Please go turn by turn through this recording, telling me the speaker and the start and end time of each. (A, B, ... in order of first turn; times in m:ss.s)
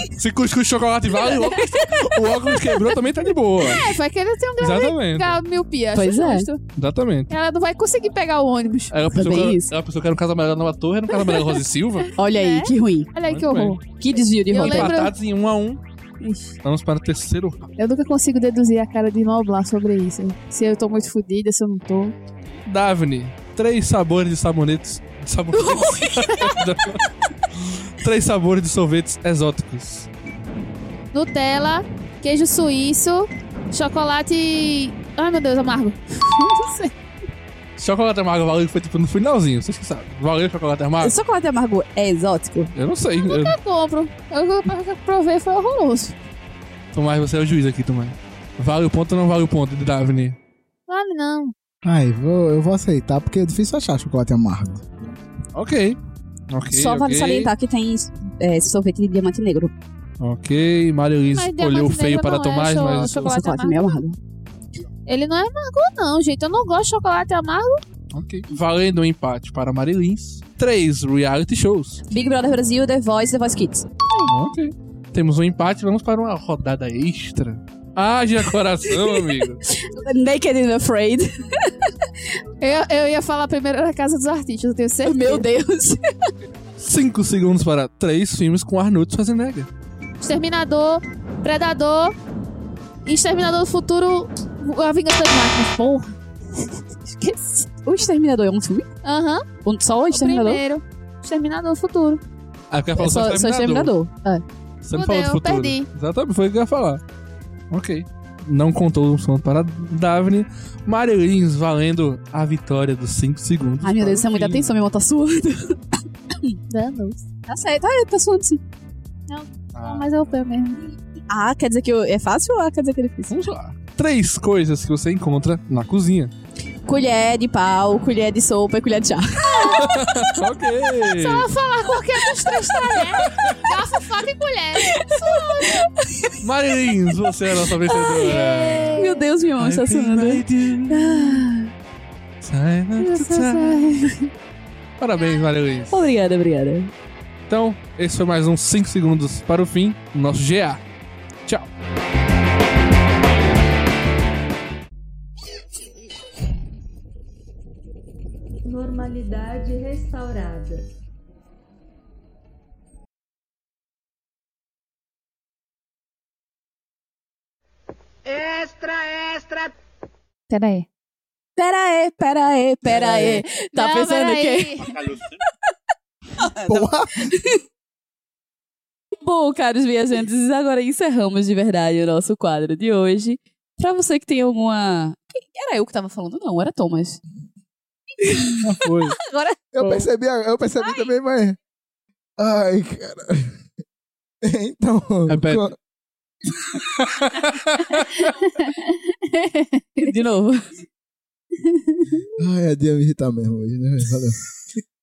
0:00.2-0:04.0 A
0:01.2-0:01.6 B
0:03.6-0:06.6 B
0:04.6-0:05.4 A
0:05.9-0:06.5 C
0:06.8-0:07.3 A
0:07.3-0:09.0 B
0:08.9-0:12.1 A
0:09.1-0:09.7 C
0:11.3-0:11.6 B
0:12.2-0:13.1 C
0:12.2-0:13.8 B
0:13.3-0:13.8 A
0:14.0-0:14.9 C
0:14.4-0:15.1 B
0:14.5-0:15.8 A
0:16.6-0:17.7 A
0:17.8-0:22.1 B
0:22.6-0:30.1 A
0:25.6-0:26.7 B
0:31.1-0:36.9 B
0:37.8-0:41.1 A
0:41.0-0:42.7 C
0:42.8-0:43.6 A
0:43.2-0:46.2 B
0:46.9-0:50.4 A
0:50.9-0:51.5 B
0:51.8-0:55.2 D
0:55.5-0:56.0 A
0:56.5-0:57.5 A
0:56.7-0:59.8 C
1:00.2-1:03.3 A
1:01.3-1:04.0 B
1:03.2-1:04.2 C
1:05.1-1:07.8 B
1:08.1-1:12.0 A
1:12.1-1:13.9 C
1:14.2-1:19.6 A
1:18.9-1:21.9 C
1:22.6-1:25.4 B
1:25.0-1:26.3 C
1:26.8-1:29.7 A
1:30.2-1:32.1 B
1:33.0-1:37.7 B
1:37.8-1:38.9 C
1:39.0-1:39.4 B
1:39.6-1:40.6 C
1:40.1-1:42.2 B
1:42.7-1:43.9 A
1:43.0-1:44.4 C
1:44.8-1:47.0 A
1:44.9-1:45.9 B
1:47.7-1:54.7 A
1:53.8-1:55.8 C
1:56.7-1:57.2 B
1:57.5-1:58.6 C
1:59.3-2:00.8 B
1:59.7-2:00.1 A
2:01.3-2:03.4 C
2:03.3-2:06.3 A
2:06.9-2:10.3 C
2:09.5-2:10.3 B
2:09.8-2:11.5 A
2:11.1-2:15.9 B
2:12.4-2:12.7 C
2:13.0-2:13.6 A
2:14.8-2:16.4 C
2:16.4-2:19.1 A
2:17.6-2:18.4 C
2:17.9-2:19.2 B
2:18.9-2:21.7 C
2:19.6-2:21.4 A
2:22.4-2:23.9 A
2:23.0-2:24.2 B
2:25.0-2:26.0 A
2:25.9-2:26.9 C
2:27.5-2:30.8 A
2:38.6-2:40.8 E
2:50.5-2:50.9 B
2:51.6-2:54.8 C
2:52.8-2:53.4 D
2:53.7-2:55.0 B
2:56.4-2:57.6 C
2:56.6-2:57.3 D
2:59.2-3:07.2 C
3:08.2-3:09.6 C
3:08.6-3:09.2 A
3:09.7-3:11.6 D
3:09.8-3:10.1 A
3:12.4-3:13.6 D
3:14.4-3:15.8 D
3:15.3-3:15.6 A
3:16.7-3:18.2 A
3:18.2-3:20.1 B
3:20.0-3:20.6 C
3:21.6-3:22.2 B
3:22.3-3:24.4 D